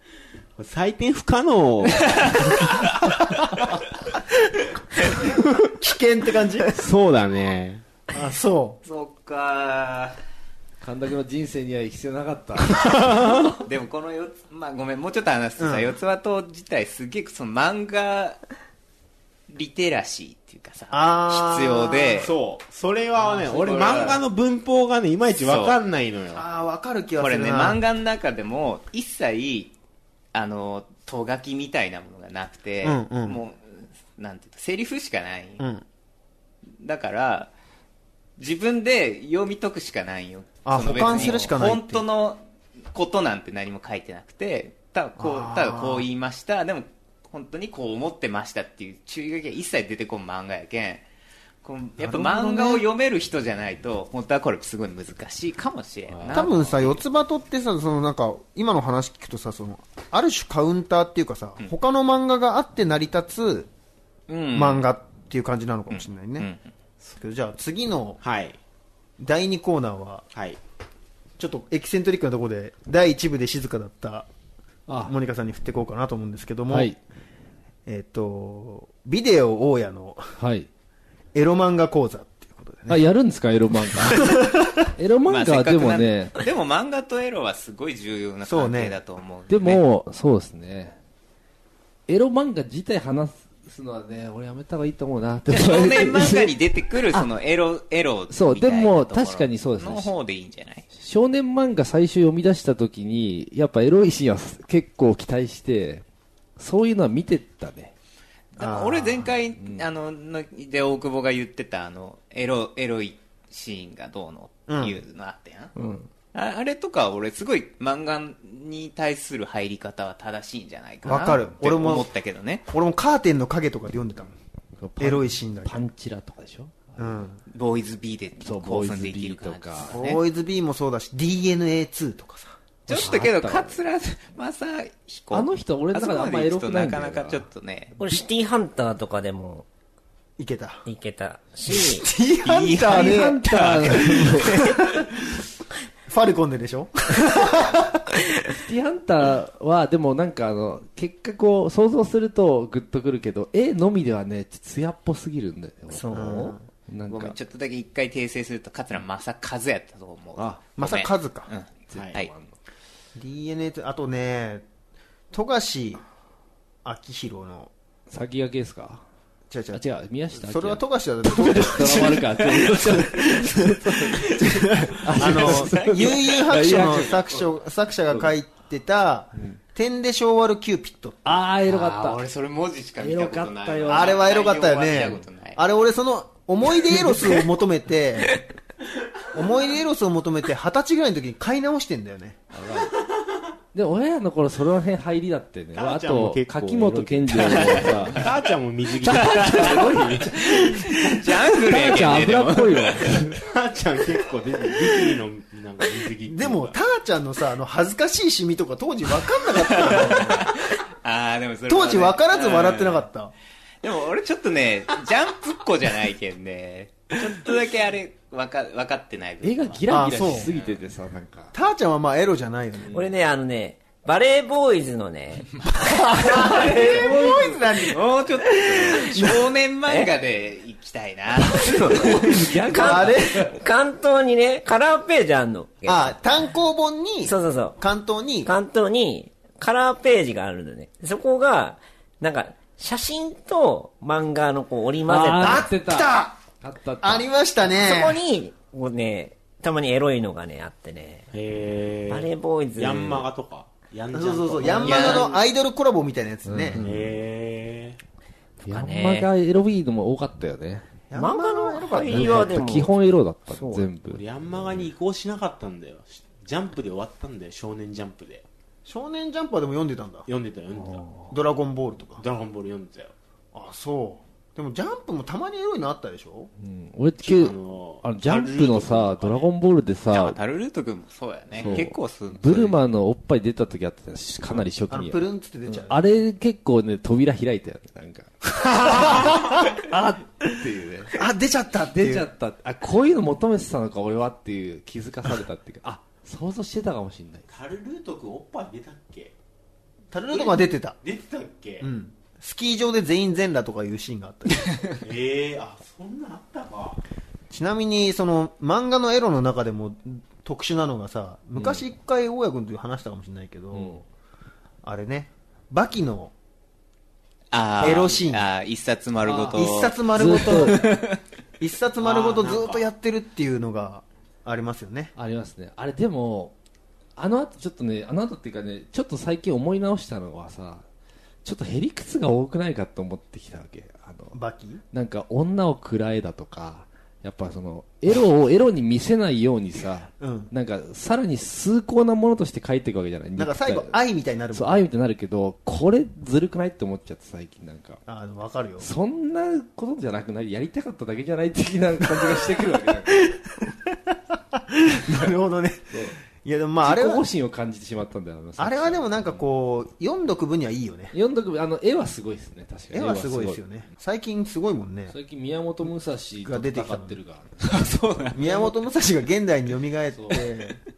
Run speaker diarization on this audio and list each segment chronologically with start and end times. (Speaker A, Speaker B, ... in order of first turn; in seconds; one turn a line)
Speaker A: 0.6-2.7
Speaker B: 2.0-2.9
Speaker C: 5.2-6.8
Speaker A: 6.7-7.8
Speaker C: 8.1-8.8
Speaker B: 8.8-10.2
Speaker D: 10.8-13.3
Speaker B: 13.6-18.4
Speaker C: 15.6-15.9
Speaker B: 19.5-22.3
Speaker C: 20.9-22.3
Speaker A: 22.2-26.4
Speaker B: 23.2-24.2
Speaker B: 25.3-25.8
Speaker C: 26.3-27.8
Speaker B: 27.2-29.7
Speaker B: 30.3-35.6
Speaker C: 32.8-33.4
Speaker C: 35.6-35.8
Speaker B: 36.8-37.5
Speaker B: 38.4-51.0
Speaker C: 40.6-42.0
Speaker C: 45.2-46.1
Speaker B: 51.6-57.0
Speaker C: 52.0-52.8
Speaker D: 56.1-56.4
Speaker C: 56.3-63.7
Speaker B: 64.3-64.8
Speaker C: 64.5-66.5
Speaker B: 65.9-66.6
Speaker C: 67.1-68.2
Speaker A: 68.2-68.6
Speaker C: 69.2-70.2
Speaker A: 70.3-70.6
Speaker C: 71.4-74.3
Speaker D: 74.9-75.1
Speaker C: 75.0-76.9
Speaker D: 76.7-77.0
Speaker C: 77.8-80.3
Speaker D: 80.4-80.7
Speaker C: 81.3-83.1
Speaker D: 82.9-84.4
Speaker C: 84.0-84.8
Speaker D: 84.9-86.4
Speaker B: 85.3-89.8
Speaker C: 88.4-89.0
Speaker D: 89.5-91.0
Speaker D: 92.1-96.5
Speaker B: 95.5-100.8
Speaker D: 98.3-100.1
Speaker D: 100.9-106.0
Speaker D: 106.6-107.9
Speaker B: 108.5-115.7
Speaker C: 108.6-109.3
Speaker D: 109.6-109.8
Speaker C: 114.7-115.0
Speaker E: 115.8-116.0
Speaker B: 116.3-122.6
Speaker C: 121.0-122.1
Speaker C: 122.7-124.3
Speaker D: 124.8-127.2
Speaker C: 125.0-125.8
Speaker C: 127.0-127.4
Speaker B: 127.5-130.2
Speaker D: 128.4-130.0
Speaker C: 129.8-132.6
Speaker B: 132.9-137.9
Speaker D: 132.9-133.8
Speaker D: 135.3-137.4
Speaker E: 138.0-139.7
Speaker C: 140.4-140.8
Speaker E: 140.8-142.1
Speaker C: 141.7-145.0
Speaker B: 142.4-144.6
Speaker D: 142.8-144.6
Speaker C: 146.1-148.0
Speaker D: 148.5-156.2
Speaker E: 155.9-156.5
Speaker C: 156.1-156.6
Speaker D: 156.9-157.4
Speaker B: 157.1-162.3
Speaker D: 160.4-160.6
Speaker C: 160.8-161.5
Speaker D: 161.9-162.5
Speaker C: 163.2-164.6
Speaker C: 165.3-166.0
Speaker C: 166.8-167.7
Speaker D: 168.1-169.0
Speaker C: 169.5-169.8
Speaker D: 169.7-177.5
Speaker C: 170.3-181.4
Speaker B: 175.1-177.0
Speaker D: 181.2-182.2
Speaker B: 181.7-185.6
Speaker D: 183.0-184.2
Speaker C: 183.9-188.4
Speaker C: 189.3-192.4
Speaker D: 192.5-192.9
Speaker D: 193.7-198.3
Speaker A: 195.7-200.8
Speaker B: 197.4-198.2
Speaker D: 199.0-203.4
Speaker B: 199.1-203.1
Speaker A: 203.4-206.7
Speaker C: 206.2-210.5
Speaker B: 209.7-213.0
Speaker C: 211.7-213.3
Speaker B: 213.8-220.8
Speaker D: 219.4-221.5
Speaker C: 219.9-220.5
Speaker C: 221.5-222.9
Speaker E: 222.9-225.5
Speaker C: 225.7-229.4
Speaker D: 226.4-227.5
Speaker B: 227.9-232.3
Speaker E: 231.6-236.1
Speaker D: 231.9-233.5
Speaker C: 232.7-233.5
Speaker C: 235.8-238.5
Speaker E: 237.2-237.8
Speaker E: 238.4-245.7
Speaker D: 245.1-247.3
Speaker C: 245.4-246.3
Speaker C: 247.0-248.2
Speaker E: 247.8-251.3
Speaker A: 251.3-255.3
Speaker E: 252.1-253.3
Speaker C: 254.1-256.9
Speaker B: 254.8-255.4
Speaker D: 256.4-257.1
Speaker A: 256.8-258.0
Speaker D: 258.6-260.9
Speaker E: 258.6-259.3
Speaker C: 261.1-262.7
Speaker E: 261.1-262.9
Speaker D: 262.1-264.9
Speaker E: 263.5-263.9
Speaker A: 264.1-268.4
Speaker C: 268.8-270.3
Speaker A: 270.3-271.1
Speaker C: 271.3-272.2
Speaker A: 272.2-273.1
Speaker C: 273.5-276.5
Speaker D: 276.6-280.4
Speaker A: 277.2-279.5
Speaker B: 280.1-282.8
Speaker D: 281.6-291.2
Speaker C: 284.9-286.0
Speaker C: 288.7-289.6
Speaker C: 291.1-292.3
Speaker D: 291.9-297.5
Speaker A: 297.5-299.3
Speaker C: 300.1-301.0
Speaker A: 300.3-301.9
Speaker C: 301.8-304.8
Speaker A: 305.0-307.0
Speaker C: 307.5-314.0
Speaker D: 311.6-311.8
Speaker D: 313.7-314.0
Speaker C: 314.8-316.3
Speaker B: 317.5-321.2
Speaker C: 317.8-318.5
Speaker D: 319.2-320.8
Speaker C: 319.5-321.0
Speaker C: 321.6-325.1
Speaker A: 322.0-322.9
Speaker D: 325.1-326.5
Speaker D: 327.2-330.8
Speaker D: 331.4-334.4
Speaker C: 334.3-334.8
Speaker D: 334.9-344.0
Speaker C: 340.2-340.5
Speaker C: 343.4-344.8
Speaker D: 344.5-348.0
Speaker C: 348.1-348.9
Speaker D: 348.8-353.4
Speaker C: 352.1-352.5
Speaker C: 353.1-357.2
Speaker D: 356.8-359.4
Speaker C: 358.6-361.1
Speaker D: 361.1-363.6
Speaker C: 362.9-365.1
Speaker D: 365.1-368.3
Speaker C: 366.4-367.2
Speaker B: 367.6-368.6
Speaker C: 368.3-370.8
Speaker D: 370.1-370.4